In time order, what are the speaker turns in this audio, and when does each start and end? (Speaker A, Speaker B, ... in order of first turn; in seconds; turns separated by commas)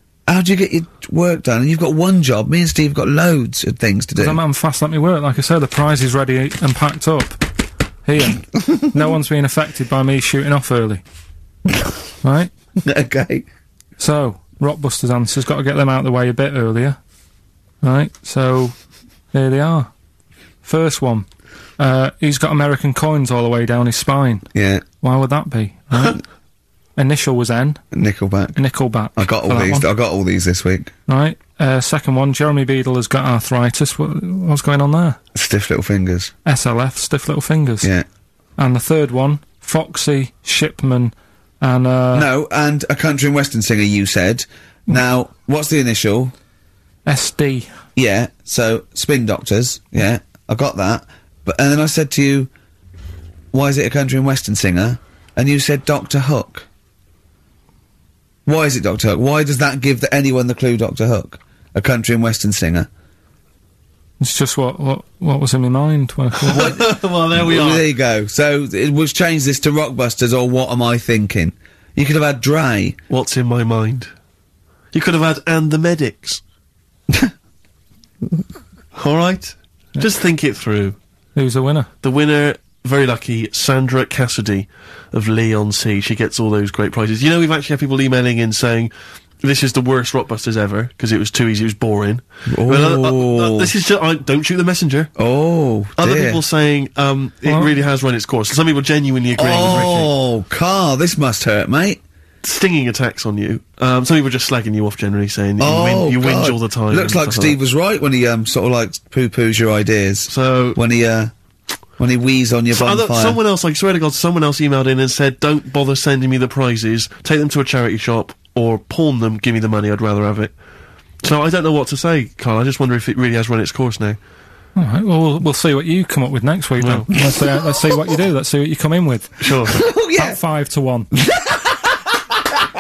Speaker A: 0.3-4.4, Speaker B: 4.2-11.0, Speaker B: 12.2-12.5, Speaker A: 12.8-13.5, Speaker B: 14.0-17.0, Speaker B: 17.8-19.9, Speaker B: 20.6-26.2, Speaker A: 24.5-24.8, Speaker B: 27.0-27.9, Speaker A: 27.9-28.6, Speaker B: 28.6-29.9, Speaker A: 29.2-30.9, Speaker B: 31.1-35.2, Speaker A: 35.3-36.3, Speaker B: 36.5-37.9, Speaker B: 38.6-42.3, Speaker A: 42.1-46.3, Speaker B: 47.1-47.7, Speaker A: 48.0-52.5, Speaker A: 53.5-56.7, Speaker A: 58.5-62.9, Speaker B: 64.2-66.8, Speaker C: 66.5-67.8, Speaker A: 66.5-73.0, Speaker C: 73.1-74.1, Speaker C: 74.9-76.4, Speaker C: 79.0-81.0, Speaker B: 81.3-81.9, Speaker C: 82.0-95.1, Speaker A: 92.5-93.7, Speaker A: 95.2-96.4, Speaker C: 96.0-100.1, Speaker B: 97.5-97.7, Speaker A: 99.4-102.0, Speaker C: 102.4-107.6, Speaker A: 105.6-111.3, Speaker C: 110.3-110.8, Speaker A: 112.0-113.4, Speaker C: 112.7-120.6, Speaker C: 121.2-124.2, Speaker B: 124.8-131.1, Speaker C: 126.8-127.1, Speaker C: 129.4-129.9, Speaker A: 129.9-130.4, Speaker A: 131.2-132.0